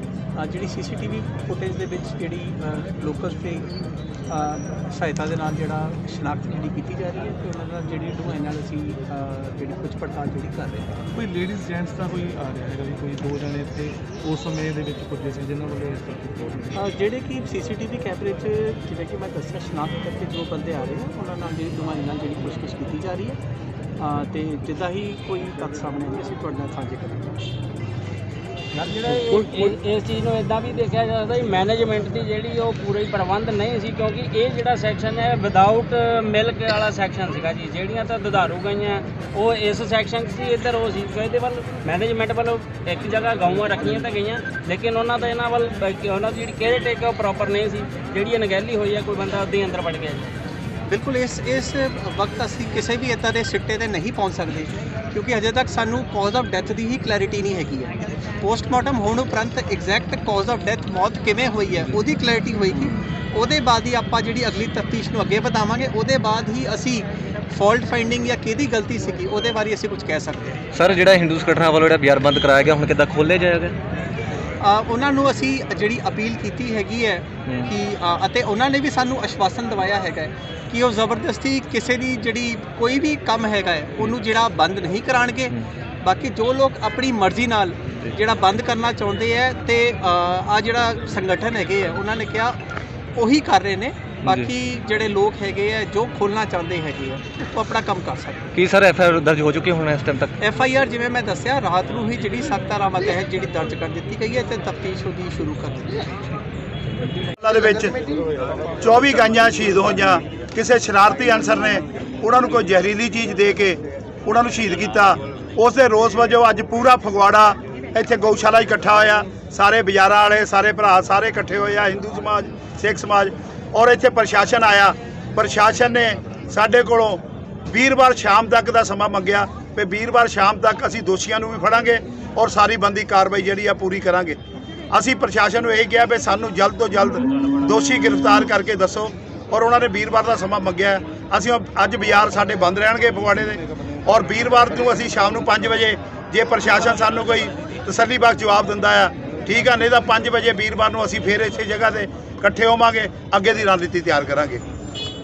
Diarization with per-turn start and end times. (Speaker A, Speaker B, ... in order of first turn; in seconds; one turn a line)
Speaker A: 0.4-3.7
Speaker A: 4.3-10.9
Speaker B: 11.2-16.7
Speaker A: 16.7-23.4
Speaker A: 24.0-27.3
Speaker C: 28.8-50.3
Speaker A: 50.9-70.5
Speaker D: 70.7-73.7
Speaker A: 74.6-92.5
Speaker A: 93.2-98.4
Speaker D: 94.2-94.5
Speaker D: 98.5-100.3
Speaker A: 100.4-105.8
Speaker E: 107.4-107.9
Speaker E: 108.8-134.4
Speaker E: 134.9-154.6